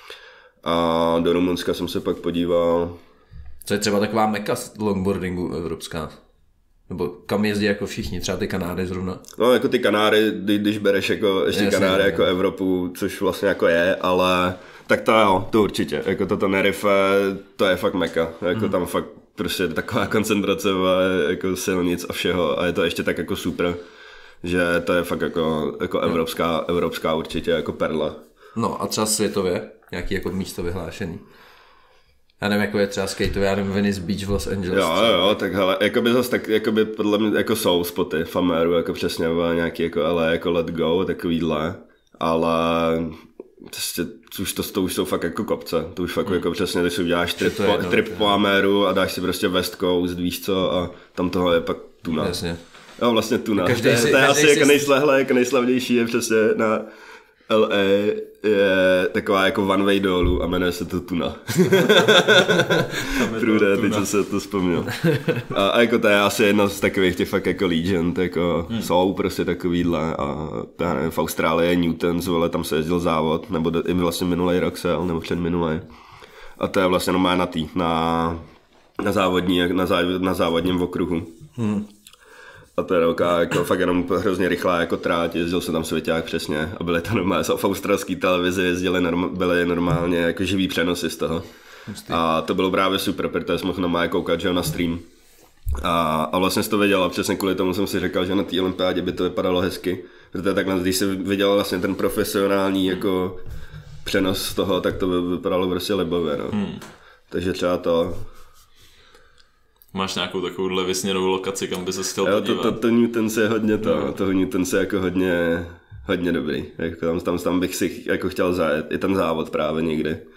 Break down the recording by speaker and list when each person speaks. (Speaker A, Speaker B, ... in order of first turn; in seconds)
Speaker A: 0.6-3.0, 9.4-23.8, 24.4-28.2, 34.7-52.4, 53.0-56.9, 57.5-75.8, 76.6-78.4, 79.0-81.3, 82.8-91.4, 92.1-95.0, 95.8-103.4, 104.0-106.6, 107.3-108.2, 112.2-120.2
Speaker B: 3.6-6.2, 6.9-9.2, 11.5-12.3, 28.6-31.2, 32.4-35.4, 47.4-48.3, 52.1-52.6, 53.6-54.9, 81.5-81.8, 91.9-92.2
Speaker C: 61.7-64.1, 106.5-106.8, 109.9-112.8, 113.8-114.1